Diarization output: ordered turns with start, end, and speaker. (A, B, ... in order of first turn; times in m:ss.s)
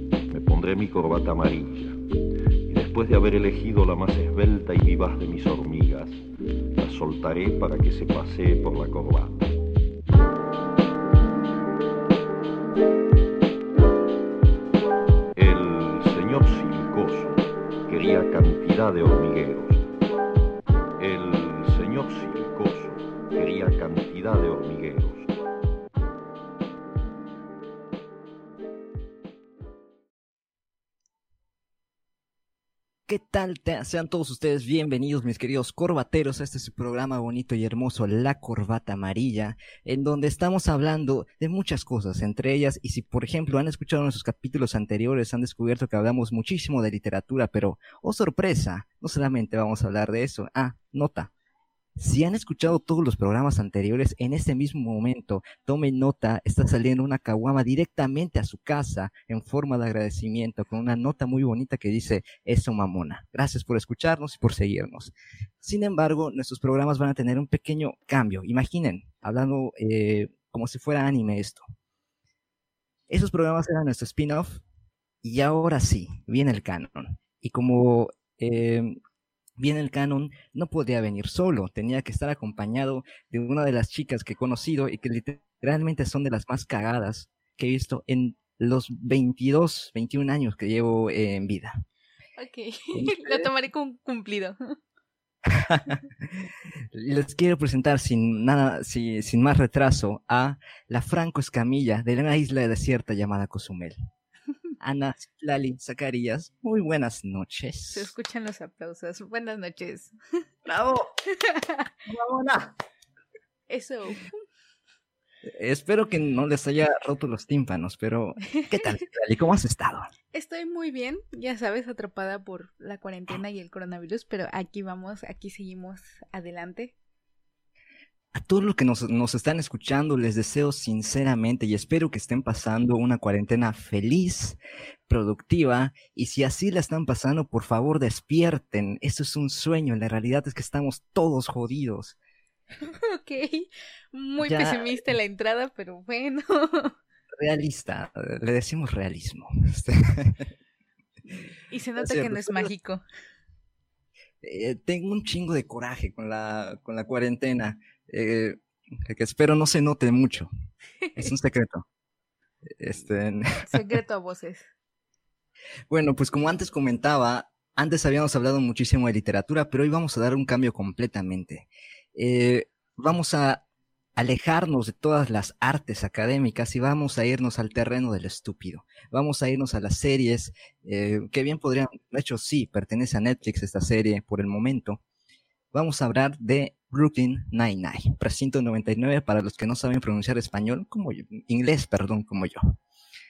0:00.3-0:02.0 A
0:02.7-0:06.2 A
0:06.8-0:09.4 A
0:15.3-0:19.8 A
0:21.0-0:25.3 A
0:33.1-0:51.3 B
0:52.0-1:11.6 B
1:13.1-1:14.6 B
1:15.2-1:19.0 B
1:19.6-1:31.8 B
1:32.4-1:34.8 C
1:32.9-1:33.5 B
1:35.5-1:44.0 B
1:44.8-1:48.1 B
1:47.9-1:50.1 C
1:50.6-1:51.2 B
1:51.3-1:51.9 C
1:52.1-1:52.8 B
1:53.7-1:54.4 C
1:55.5-2:00.0 B
2:00.3-2:06.9 C
2:08.3-2:14.6 B
2:15.1-2:22.2 B
2:22.8-2:26.9 C
2:24.4-2:25.0 B
2:27.4-2:30.5 B
2:31.3-2:33.0 C
2:32.0-2:32.7 B
2:34.4-2:40.5 B
2:41.0-2:41.3 C
2:41.2-2:41.8 B
2:42.7-2:43.8 B
2:43.6-2:44.7 C
2:45.9-2:53.6 B
2:54.2-3:05.0 B
3:05.7-3:12.8 B